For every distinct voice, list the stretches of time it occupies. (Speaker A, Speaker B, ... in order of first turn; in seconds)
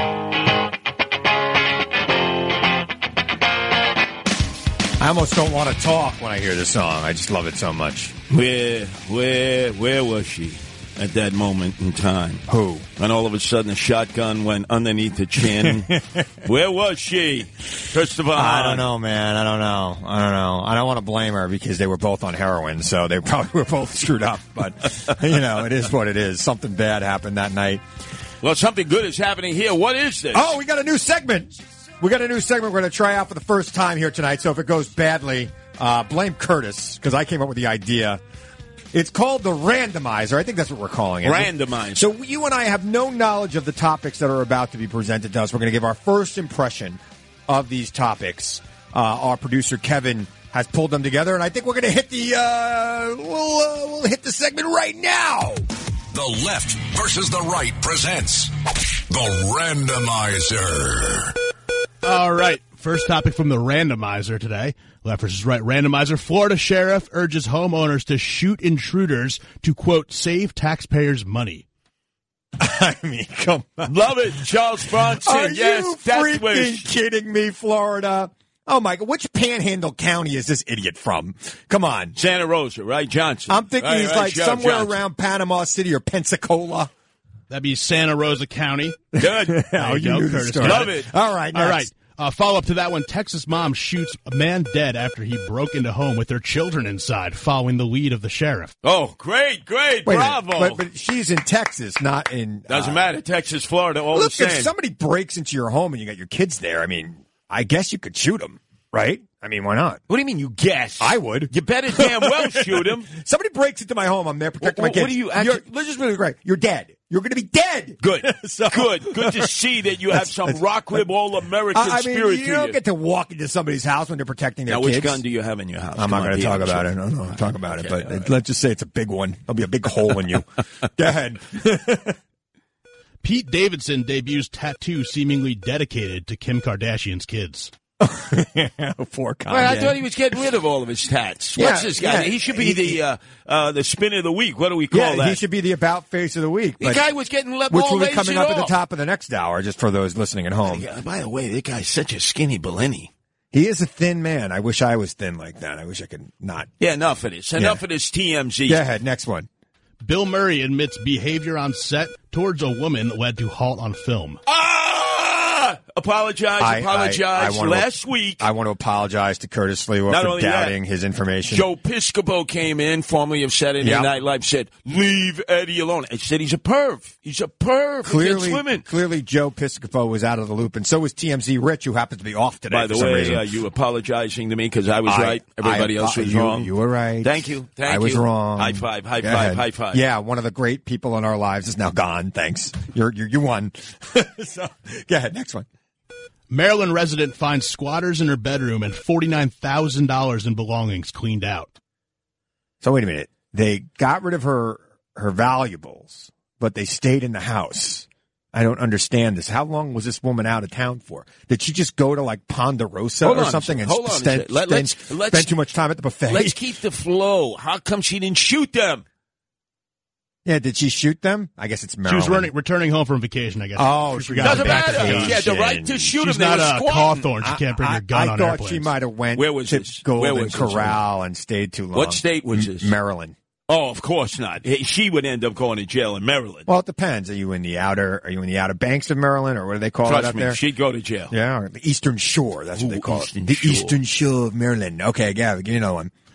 Speaker A: 5.0-8.1, 12.5-12.8, 15.4-16.2, 18.3-27.8, 30.3-38.2, 38.9-55.6, 72.6-74.4, 75.0-82.2, 83.5-86.9, 89.2-91.9, 100.0-103.0, 104.1-110.0, 111.0-119.5, 120.1-120.6, 121.7-125.2, 125.9-132.2, 138.0-140.0, 141.6-143.0, 144.9-147.0, 147.7-150.8, 153.5-156.7, 158.7-159.5, 166.6-171.7, 173.8-174.1, 178.0-183.4, 185.1-195.7, 202.8-216.6, 220.4-222.5, 223.8-226.1, 227.4-233.3, 236.7-240.6, 241.3-246.1
Speaker B: 8.3-12.4, 13.0-18.9, 28.4-30.6, 41.2-42.1, 73.8-76.9, 82.2-85.0, 89.2-89.6, 90.6-91.1, 98.8-100.8, 102.7-104.7, 110.1-113.1, 114.6-115.6, 118.0-122.8, 124.7-126.9, 127.5-128.3, 139.5-145.4, 146.8-148.7, 150.6-153.1, 156.8-158.8, 164.4-168.4, 170.1-170.8, 171.5-178.8, 182.7-186.7, 187.2-190.0, 213.2-215.5, 216.3-219.0, 224.4-227.3, 229.3-231.0, 231.9-232.9, 233.7-236.7, 240.0-241.3, 242.7-244.0
Speaker C: 56.1-58.5, 59.1-61.4
Speaker D: 62.0-71.6, 87.5-89.1, 89.7-91.0, 91.5-98.7, 133.2-137.7, 160.0-164.4, 196.5-201.7, 222.1-225.4, 226.1-228.9